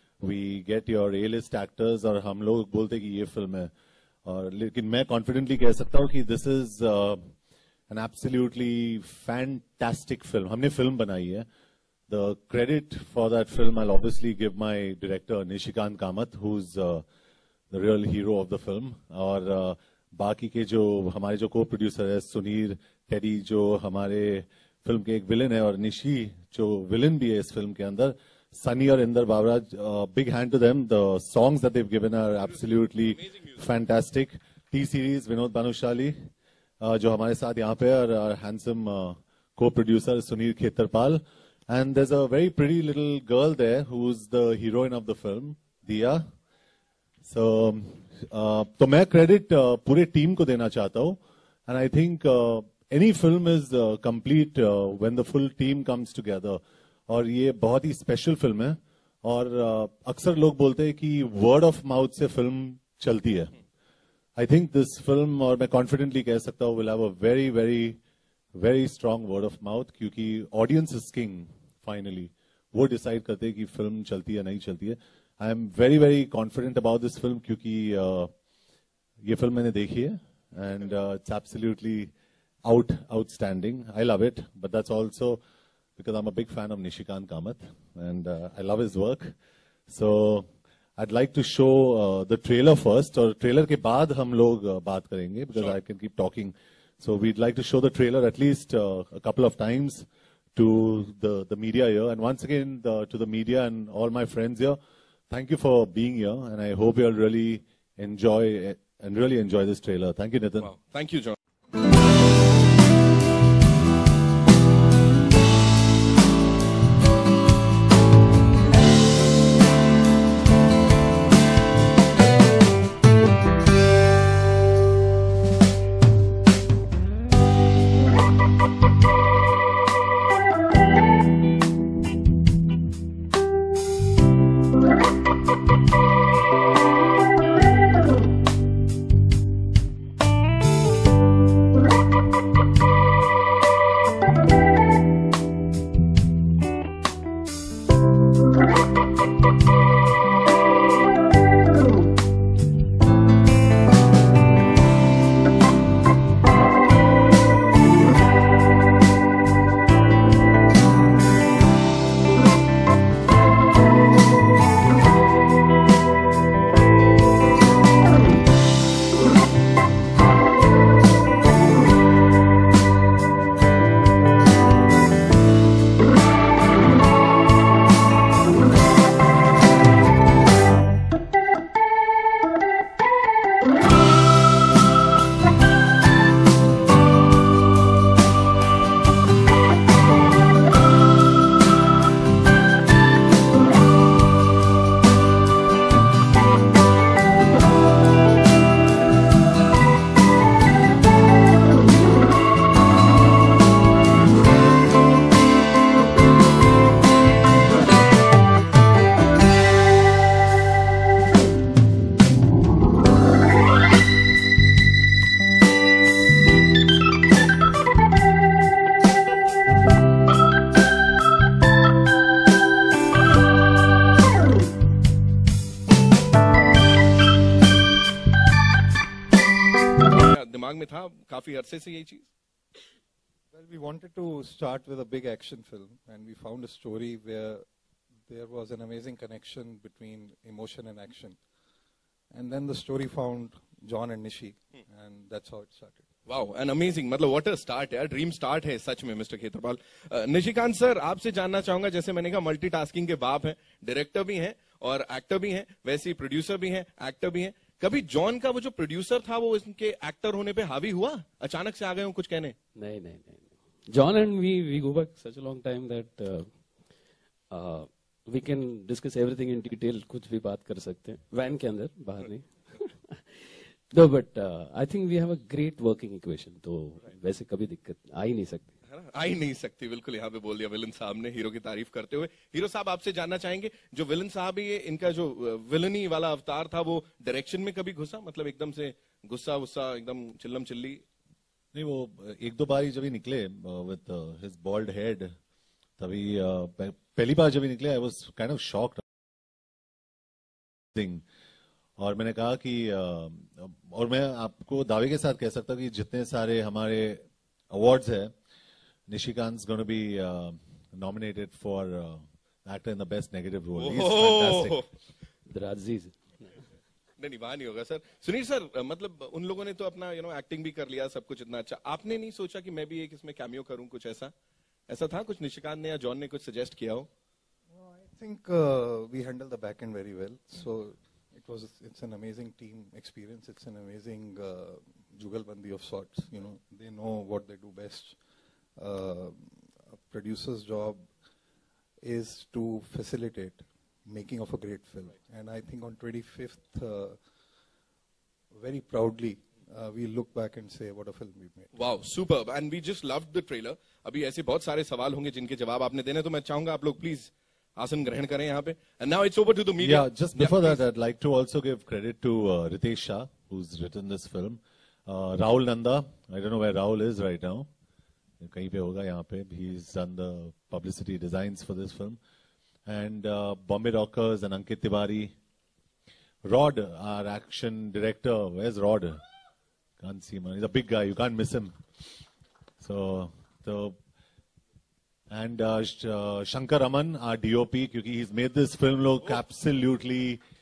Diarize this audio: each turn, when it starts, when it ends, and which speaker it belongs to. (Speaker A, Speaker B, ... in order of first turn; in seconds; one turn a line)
Speaker A: 0.2-3.7
Speaker A: 4.2-7.2
Speaker A: 7.9-11.4
Speaker A: 12.1-17.0
Speaker A: 17.7-36.1
Speaker B: 33.1-33.6
Speaker A: 36.8-46.2
Speaker A: 47.2-63.5
Speaker A: 64.4-68.0
Speaker A: 68.5-78.3
Speaker A: 79.2-82.1
Speaker A: 82.6-85.4
Speaker A: 86.0-89.3
Speaker A: 89.9-90.5
Speaker A: 91.0-104.8
Speaker A: 105.3-110.7
Speaker B: 110.6-111.3
Speaker B: 230.2-232.3
Speaker C: 233.5-237.6
Speaker C: 238.3-241.4
Speaker C: 242.3-246.0
Speaker B: 246.3-262.5
Speaker D: 262.8-266.5
Speaker D: 267.5-273.2
Speaker D: 273.9-278.7
Speaker B: 278.9-291.0
Speaker A: 291.7-295.3
Speaker A: 296.0-299.0
Speaker A: 300.9-301.2
Speaker A: 302.0-308.3
Speaker A: 309.1-314.8
Speaker B: 313.8-314.8
Speaker D: 315.5-316.1
Speaker B: 317.2-324.3
Speaker B: 324.9-327.1
Speaker C: 327.7-338.2
Speaker C: 338.8-341.0
Speaker C: 342.0-347.2
Speaker C: 348.5-351.7
Speaker B: 351.7-360.8
Speaker A: 359.8-367.7
Speaker A: 368.4-372.2
Speaker A: 372.9-375.3
Speaker A: 376.4-379.2
Speaker A: 380.0-381.7
Speaker A: 382.8-383.9
Speaker A: 385.3-390.4